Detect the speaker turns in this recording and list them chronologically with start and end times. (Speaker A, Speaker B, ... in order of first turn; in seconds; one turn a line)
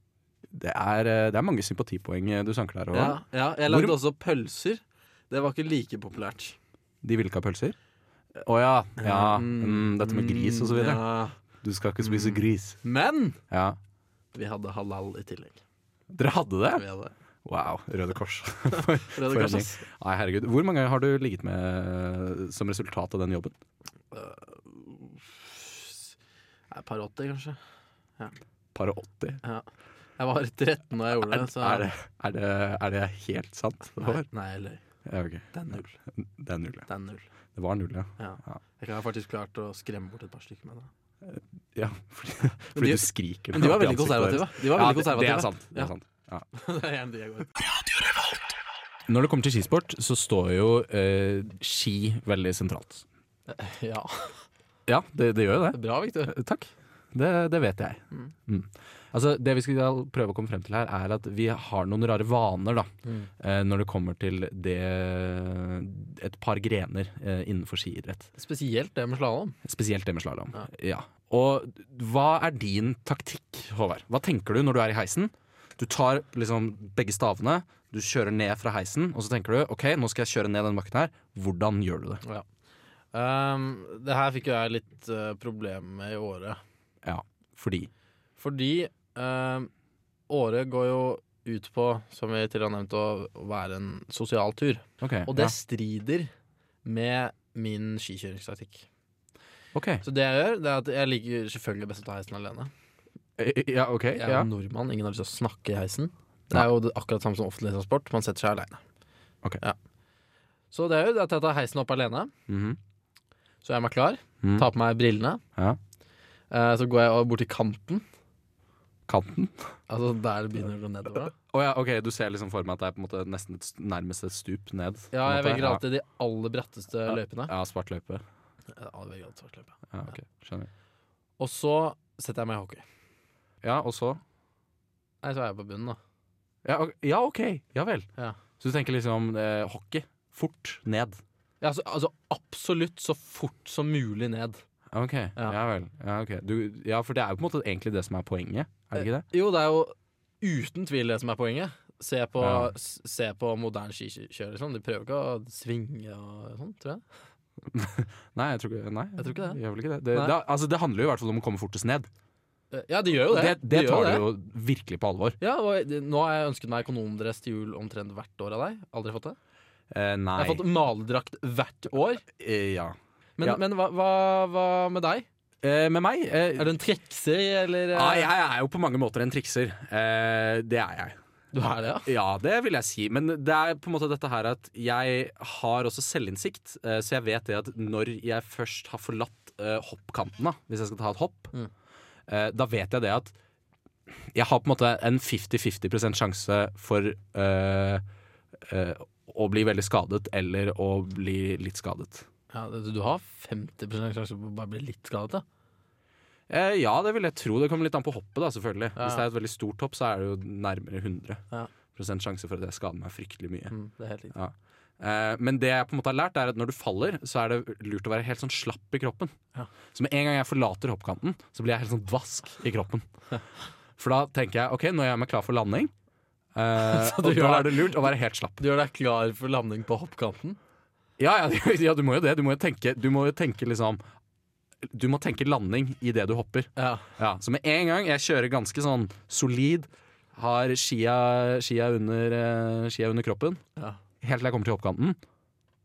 Speaker A: 0.5-4.0
Speaker B: 2.9-6.6
Speaker A: 7.0-7.8
Speaker A: 8.4-11.0
Speaker B: 9.0-11.4
Speaker A: 11.6-12.8
Speaker B: 12.0-13.4
Speaker A: 13.5-13.8
Speaker B: 14.3-15.6
Speaker A: 16.1-16.8
Speaker B: 16.7-17.1
Speaker A: 17.4-23.6
Speaker B: 18.7-19.9
Speaker B: 24.1-26.1
Speaker B: 26.7-27.6
Speaker A: 28.8-29.4
Speaker B: 30.2-31.9
Speaker A: 31.2-34.3
Speaker B: 34.0-34.8
Speaker A: 35.1-36.9
Speaker B: 35.5-36.0
Speaker B: 36.9-37.3
Speaker A: 37.5-38.6
Speaker B: 38.2-40.9
Speaker A: 41.2-46.5
Speaker B: 42.8-45.9
Speaker B: 46.5-47.5
Speaker A: 49.1-53.0
Speaker B: 53.5-54.5
Speaker A: 54.9-68.3
Speaker B: 55.7-56.4
Speaker B: 63.0-63.3
Speaker B: 68.4-69.6
Speaker A: 69.6-82.2
Speaker B: 83.1-86.6
Speaker A: 87.0-87.9
Speaker B: 88.4-89.7
Speaker B: 90.3-96.3
Speaker A: 95.0-95.5
Speaker B: 96.8-98.9
Speaker A: 99.7-100.0
Speaker B: 100.0-102.7
Speaker A: 103.4-104.5
Speaker B: 104.1-108.8
Speaker B: 110.7-112.3
Speaker A: 112.5-112.8
Speaker B: 113.6-115.4
Speaker A: 114.4-114.7
Speaker B: 116.5-118.1
Speaker A: 119.1-119.7
Speaker B: 119.9-121.3
Speaker A: 121.5-125.8
Speaker B: 125.1-127.5
Speaker A: 127.0-128.2
Speaker B: 128.7-130.2
Speaker A: 129.9-130.7
Speaker B: 131.4-132.8
Speaker A: 133.6-134.2
Speaker B: 135.2-136.0
Speaker A: 136.6-141.2
Speaker B: 141.6-144.6
Speaker A: 144.9-149.3
Speaker B: 148.9-157.0
Speaker A: 152.4-152.7
Speaker A: 157.7-162.1
Speaker B: 159.2-159.6
Speaker B: 162.7-164.3
Speaker A: 163.3-165.4
Speaker B: 165.4-169.4
Speaker A: 169.9-170.7
Speaker B: 170.4-172.2
Speaker A: 172.3-173.6
Speaker B: 173.4-175.3
Speaker A: 175.6-176.7
Speaker B: 176.5-178.3
Speaker A: 177.9-181.2
Speaker B: 181.5-182.1
Speaker A: 182.1-191.5
Speaker A: 192.3-193.3
Speaker A: 194.3-198.0
Speaker A: 198.6-202.3
Speaker B: 202.5-205.4
Speaker A: 206.5-211.4
Speaker B: 209.0-209.2
Speaker A: 211.9-213.7
Speaker B: 213.7-214.3
Speaker A: 214.3-219.3
Speaker A: 219.9-223.1
Speaker A: 224.0-225.9
Speaker A: 226.6-228.6
Speaker B: 226.8-227.9
Speaker B: 228.6-230.6
Speaker A: 231.2-234.0
Speaker A: 234.9-243.6
Speaker B: 236.8-237.1
Speaker A: 244.2-245.2